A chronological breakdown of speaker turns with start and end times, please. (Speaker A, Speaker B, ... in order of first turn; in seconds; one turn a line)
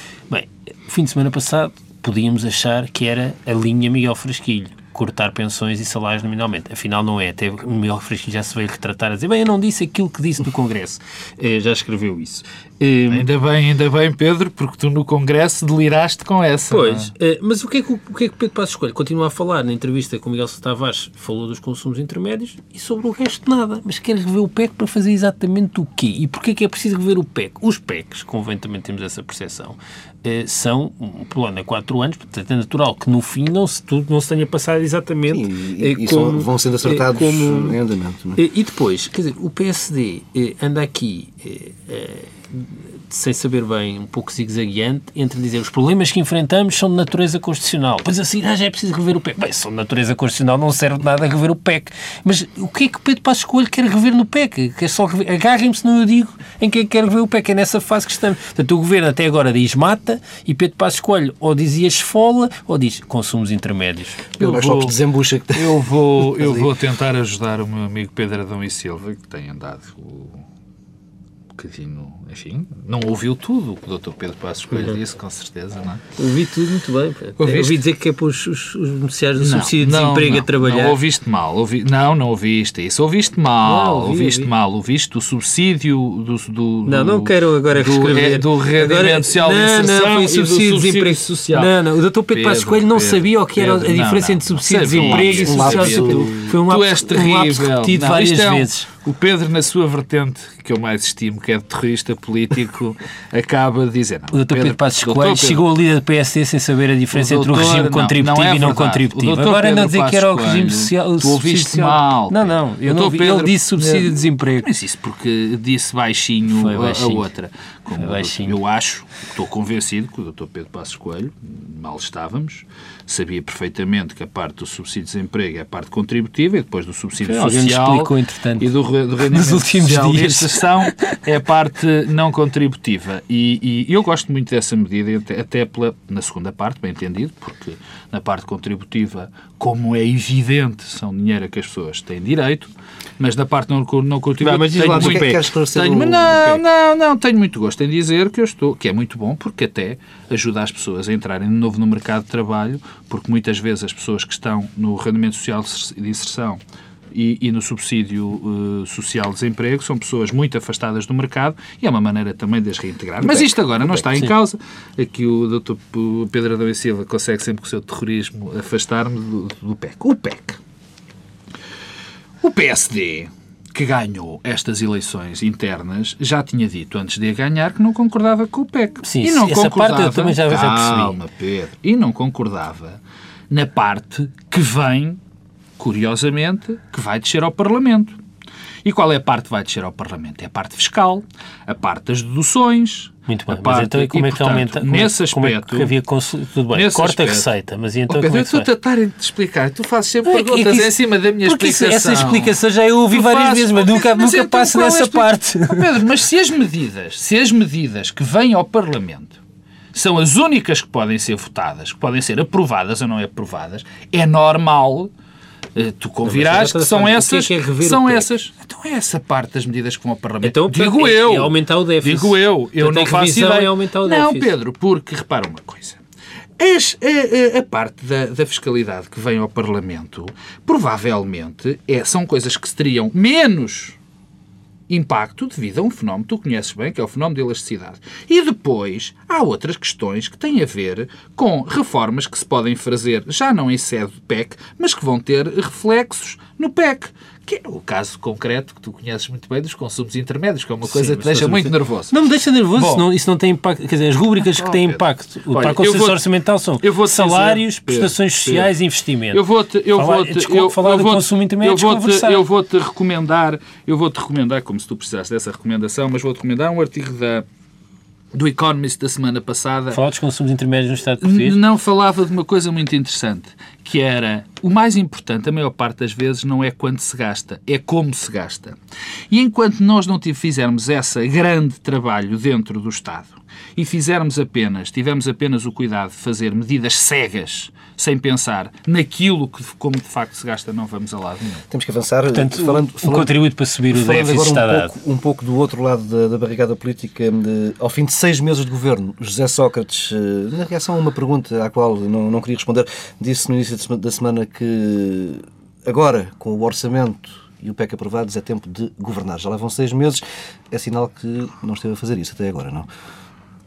Speaker A: 0.3-13.3
Speaker B: 13.1-17.1
Speaker A: 16.7-37.8
Speaker C: 35.3-38.4
Speaker A: 38.4-64.3
Speaker B: 64.4-65.0
Speaker C: 64.4-66.7
Speaker B: 65.5-70.4
Speaker B: 71.5-76.0
Speaker A: 74.7-75.0
Speaker A: 76.2-81.0
Speaker B: 77.4-77.8
Speaker B: 79.4-91.7
Speaker A: 83.7-84.5
Speaker A: 86.9-98.9
Speaker B: 92.3-105.7
Speaker C: 95.0-96.5
Speaker A: 104.3-114.7
Speaker B: 107.1-156.6
Speaker A: 116.5-117.3
Speaker A: 118.0-118.6
Speaker A: 127.3-128.7
Speaker A: 129.2-131.2
Speaker A: 144.4-145.5
Speaker C: 144.6-146.6
Speaker B: 157.1-170.6
Speaker B: 172.4-185.2
Speaker A: 179.0-181.2
Speaker B: 185.8-188.2
Speaker B: 188.8-195.9
Speaker A: 193.3-198.7
Speaker B: 196.7-197.5
Speaker B: 198.1-202.6
Speaker A: 200.3-205.9
Speaker B: 203.1-209.4
Speaker B: 209.9-215.1
Speaker B: 215.7-226.0
Speaker A: 216.2-218.3
Speaker A: 220.4-224.5
Speaker B: 226.6-234.0
Speaker B: 234.9-252.1
Speaker A: 250.9-262.4
Speaker B: 252.8-253.1
Speaker B: 254.4-256.3
Speaker B: 256.8-258.7
Speaker B: 259.3-267.5
Speaker B: 268.3-270.0
Speaker A: 269.9-271.6
Speaker B: 271.2-278.8
Speaker B: 279.3-291.6
Speaker C: 291.7-293.3
Speaker A: 292.3-294.9
Speaker C: 293.9-312.9